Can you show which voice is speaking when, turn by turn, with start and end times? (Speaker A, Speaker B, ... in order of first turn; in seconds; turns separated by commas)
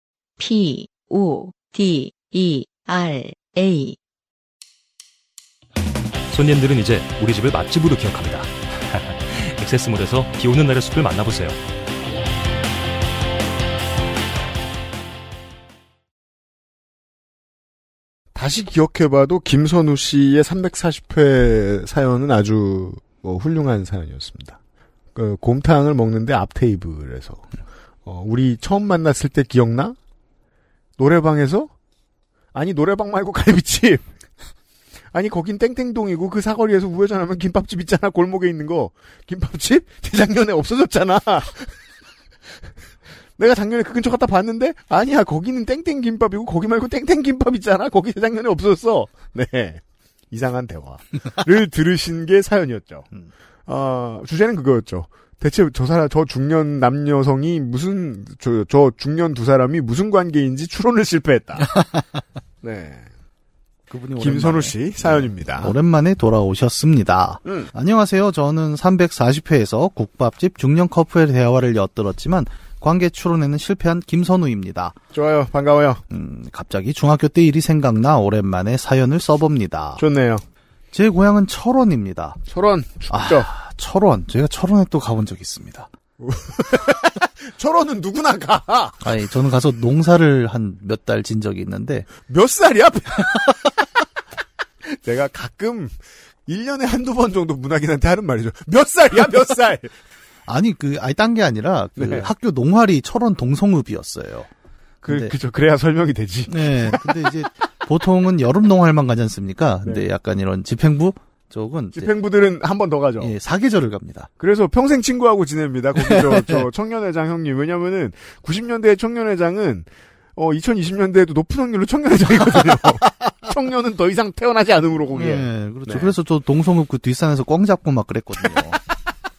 Speaker A: 0.4-4.0, Speaker B: 6.3-11.6, Speaker C: 18.4-24.6, Speaker C: 25.1-27.4, Speaker C: 28.1-30.0, Speaker C: 31.0-31.7, Speaker C: 32.5-34.0, Speaker C: 35.1-41.7, Speaker C: 43.4-53.1, Speaker C: 53.7-61.8, Speaker C: 62.6-63.1, Speaker D: 63.9-75.0, Speaker C: 64.2-65.8, Speaker C: 67.5-67.7, Speaker C: 75.1-76.0, Speaker D: 76.1-80.0, Speaker C: 80.0-80.4, Speaker D: 80.9-82.4, Speaker C: 82.5-83.5, Speaker D: 83.1-85.9, Speaker C: 86.2-89.0, Speaker D: 89.0-92.1, Speaker C: 92.3-93.4, Speaker C: 94.9-99.9, Speaker D: 100.5-104.5, Speaker C: 102.0-102.3, Speaker C: 105.0-107.1, Speaker D: 105.1-105.3, Speaker D: 106.5-112.1, Speaker C: 112.0-113.3, Speaker D: 113.2-114.3, Speaker C: 114.4-126.2, Speaker D: 116.0-116.7, Speaker D: 125.1-128.8